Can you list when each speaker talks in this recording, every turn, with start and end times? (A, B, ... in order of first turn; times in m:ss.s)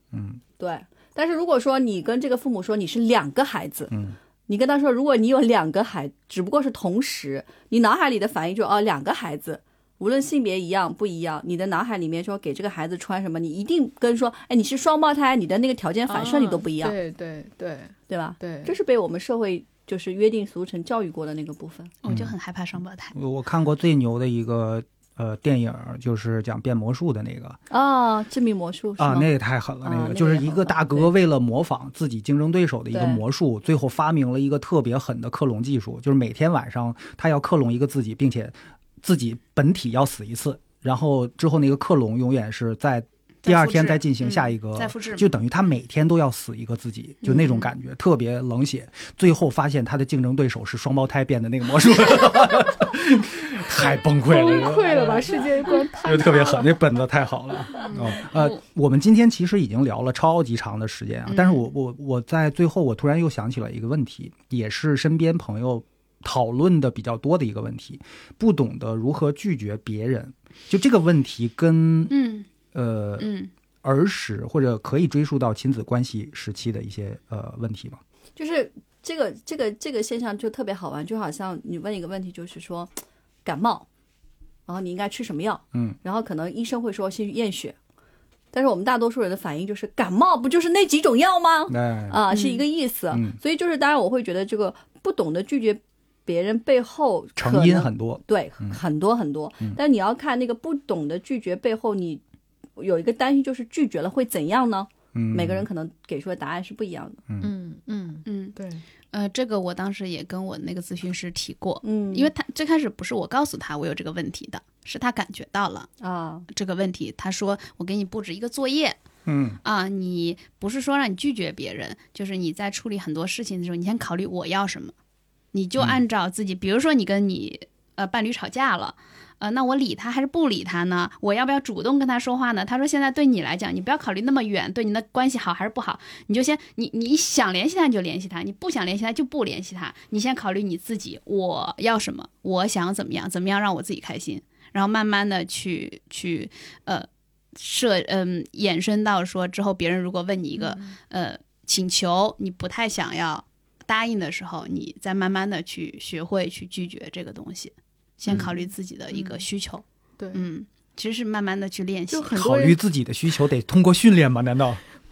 0:00.1-0:00.4 A
0:00.6-0:03.9 B
0:03.9-0:04.2 A
0:04.5-0:17.0 B
0:16.1-0:18.7 C
0:18.1-0:21.9 B
0:22.0-0:23.1 D
0:22.1-0:22.4 A
0:23.1-0:27.6 A
0:27.7-0:29.3 B
0:29.0-0:55.5 A
0:29.8-0:31.1 B
0:32.9-0:33.2 B
0:43.4-0:45.3 D
0:47.2-0:47.7 D
0:54.3-0:56.8 C
0:56.0-1:12.1 A
0:57.7-0:58.6 D
1:01.3-1:01.6 D
1:12.1-1:12.5 D
1:12.7-1:13.3 A
1:13.2-1:13.5 D
1:13.8-1:18.0 A
1:18.4-1:22.9 B
1:23.4-1:23.9 B
1:24.7-1:27.8 B
1:28.5-1:42.2 B
1:31.7-1:32.2 A
1:32.3-1:32.6 D
1:33.1-1:33.4 A
1:37.4-1:38.8 A
1:42.8-1:47.2 B
1:45.2-1:45.6 A
1:47.4-1:48.8 C
1:48.3-1:48.6 D
1:49.1-1:55.9 D
1:51.8-1:52.3 B
1:56.0-1:56.5 B
1:56.5-1:59.0 D
1:59.3-1:59.6 A
1:59.6-2:04.9 D
2:05.5-2:42.5 D
2:30.6-2:30.9 C
2:38.3-2:39.4 C
2:40.2-2:40.5 C
2:42.1-2:42.8 C
2:42.3-2:44.8 A